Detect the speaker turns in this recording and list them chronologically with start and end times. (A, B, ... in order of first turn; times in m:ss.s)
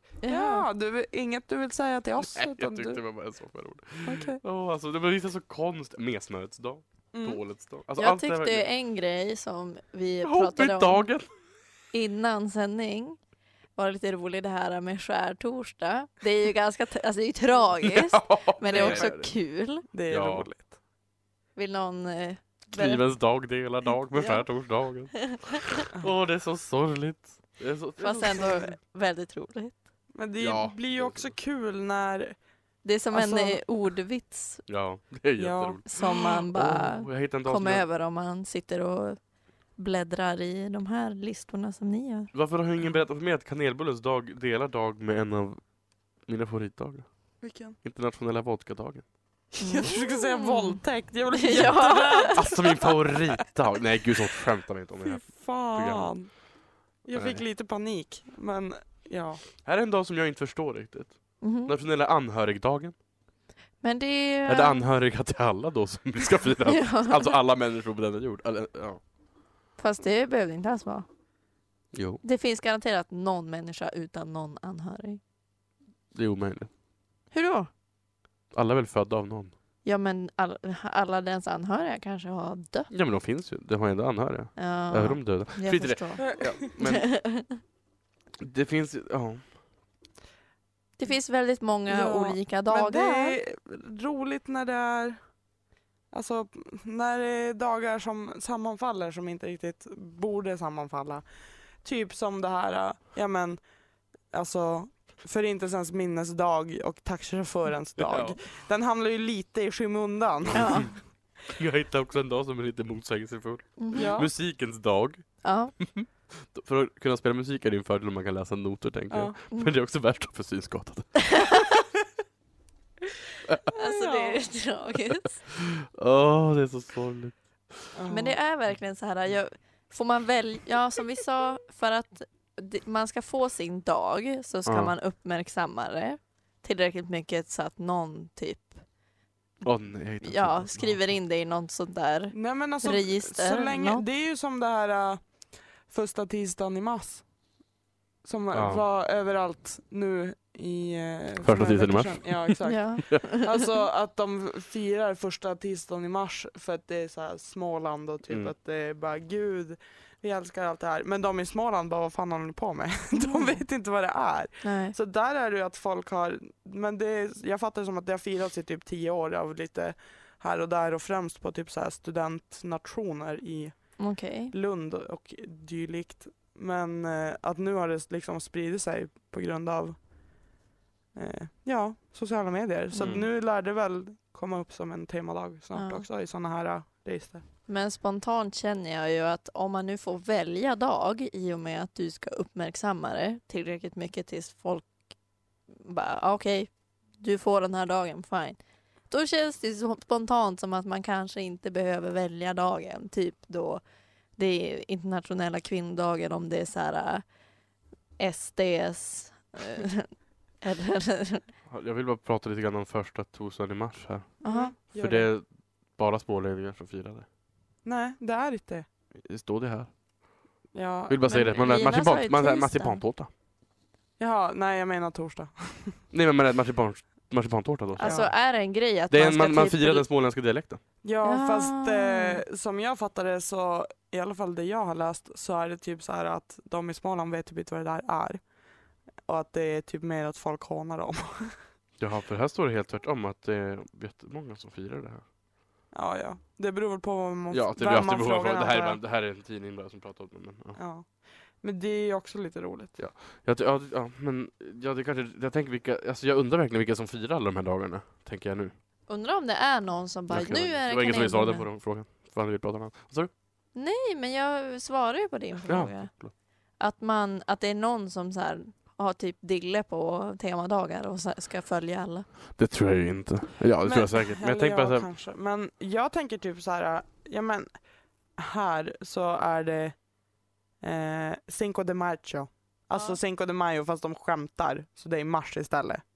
0:00.2-0:00.7 A
0:00.2-0:03.0 B
0:02.2-0:08.6 C
0:04.0-0:04.4 B
0:07.1-0:07.4 B
0:08.0-0:11.0 A
0:10.2-0:11.2 C
0:11.9-0:13.2 A
0:13.8-0:19.8 A
0:17.8-0:19.3 C
0:18.7-0:19.1 B
0:19.9-0:20.7 B
0:20.1-0:20.5 C
0:21.6-0:23.0 A
0:22.7-0:28.6 C
0:24.1-0:24.5 A
0:28.0-0:29.8 A
0:30.1-0:32.4 B
0:30.4-0:31.3 C
0:32.8-0:34.6 A
0:33.1-0:33.6 B
0:34.7-0:37.8 C
0:35.4-0:36.2 B
0:35.8-0:39.2 A
0:39.8-0:42.3 A
0:42.3-0:45.6 C
0:46.2-0:47.1 C
0:47.4-0:47.8 B
0:47.8-0:49.0 C
0:49.6-0:53.3 B
0:49.6-0:50.8 A
0:51.3-0:52.3 A
0:52.3-0:56.2 C
0:55.0-0:56.3 B
0:57.0-0:59.4 B
0:57.1-0:57.4 C
0:59.6-1:02.9 C
1:01.4-1:01.7 A
1:03.8-1:04.8 A
1:04.5-1:09.0 C
1:06.6-1:07.3 A
1:09.8-1:11.0 A
1:11.9-1:12.2 C
1:12.2-1:15.2 A
1:16.1-1:16.7 C
1:17.3-1:17.7 A
1:18.5-1:19.5 C
1:19.8-1:22.9 A
1:22.9-1:27.2 C
1:24.6-1:27.6 A
1:26.2-1:26.6 B
1:28.4-1:29.5 C
1:31.0-1:33.4 A
1:31.9-1:35.2 B
1:36.1-1:41.2 B
1:41.8-1:43.6 B
1:44.3-1:50.9 B
1:48.0-1:48.4 C
1:50.5-1:50.9 C
1:50.5-1:50.9 A
1:51.5-2:01.3 C
1:53.8-1:54.1 A
1:53.9-1:54.3 B
1:55.4-1:55.7 A
1:59.1-1:59.3 B
2:01.3-2:01.7 A
2:03.7-2:05.4 A
2:03.8-2:04.4 B
2:05.5-2:07.9 C
2:07.9-2:08.4 B
2:08.1-2:18.8 A
2:14.7-2:14.9 C
2:19.6-2:21.0 C
2:20.2-2:24.0 A
2:22.3-2:25.2 B
2:25.8-2:27.2 B
2:28.2-3:00.0 B
2:28.5-2:28.8 C
2:31.4-2:33.2 C
2:32.7-2:33.4 A
2:43.2-2:43.5 A
2:44.6-2:45.0 A
2:54.0-2:54.5 A
3:01.1-3:07.4 B
3:03.0-3:03.3 C
3:05.7-3:06.0 A
3:07.7-3:14.9 A
3:15.8-3:18.6 A
3:19.1-3:23.8 A
3:24.4-3:27.2 A
3:28.2-3:31.5 A
3:31.7-3:37.2 C
3:34.4-3:34.7 A
3:34.4-3:35.3 B
3:37.8-3:38.9 B
3:39.1-3:39.9 C
3:40.7-3:41.4 B
3:41.1-3:43.3 C
3:41.3-3:43.0 A
3:44.2-3:46.0 B
3:46.1-3:48.3 C
3:48.0-3:50.0 A
3:48.0-3:48.3 B
3:49.1-3:50.8 C
3:51.0-3:58.4 B
3:51.2-3:52.4 A
3:59.2-4:01.6 B
4:02.0-4:05.2 C
4:05.9-4:09.0 B
4:07.5-4:10.8 C
4:10.8-4:11.1 B
4:11.6-4:12.9 B
4:13.0-4:18.7 C
4:19.1-4:21.7 A
4:20.3-4:23.3 C
4:23.7-4:26.1 A
4:25.7-4:26.3 C
4:26.8-4:32.3 A
4:32.6-4:35.1 C
4:33.8-4:37.7 B
4:38.4-4:40.0 B
4:40.8-4:46.0 B